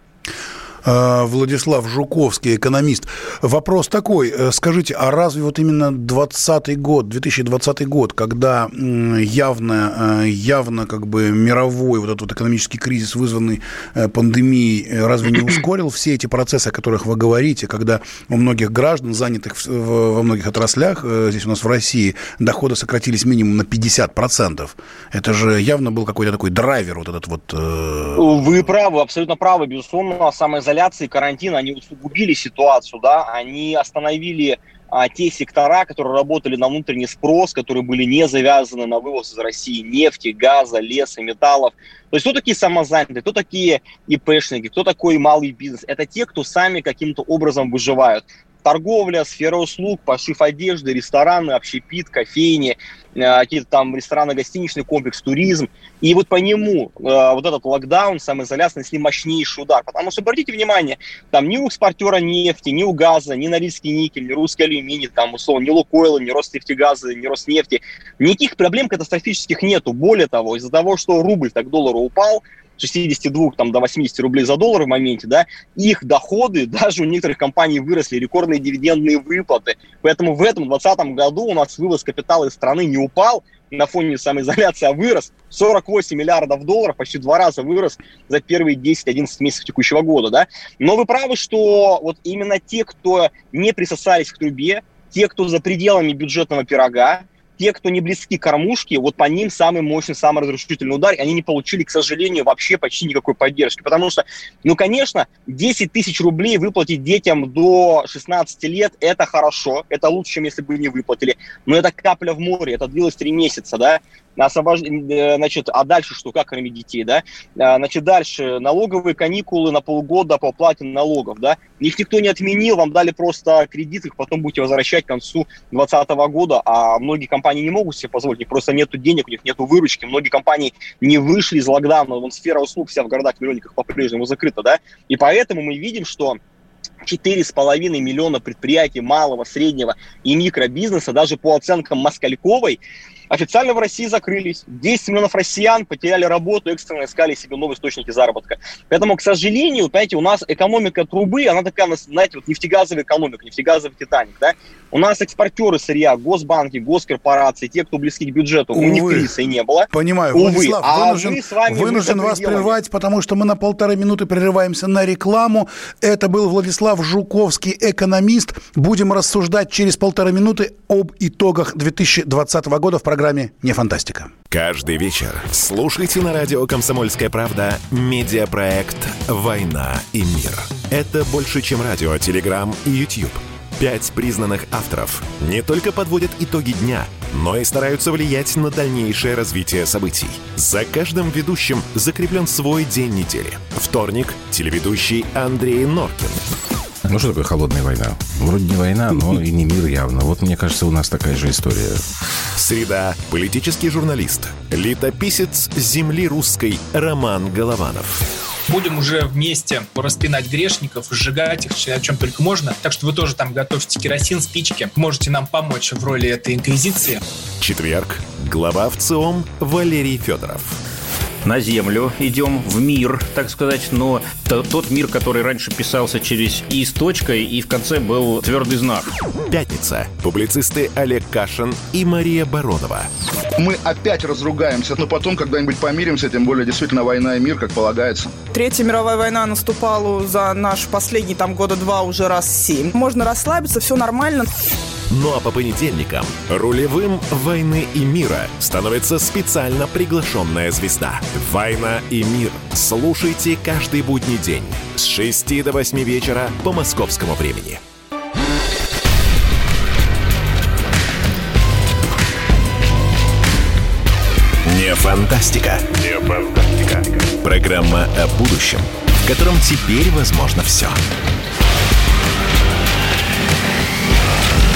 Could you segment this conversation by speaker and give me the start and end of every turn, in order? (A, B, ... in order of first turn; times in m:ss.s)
0:00.8-0:28.7 A
0:28.2-2:16.4 B
2:17.0-2:42.7 B
2:38.7-2:39.3 A
2:39.9-2:54.3 A
2:54.5-3:16.4 C
3:17.1-3:22.0 D
3:22.6-3:28.2 C
3:28.7-3:37.2 E
3:37.6-3:40.8 C
3:41.4-3:49.1 F
3:49.5-3:53.1 C
3:53.6-3:58.3 G
3:58.5-4:04.5 H
4:05.1-4:17.8 C
4:24.6-4:25.8 C
4:27.4-4:31.0 C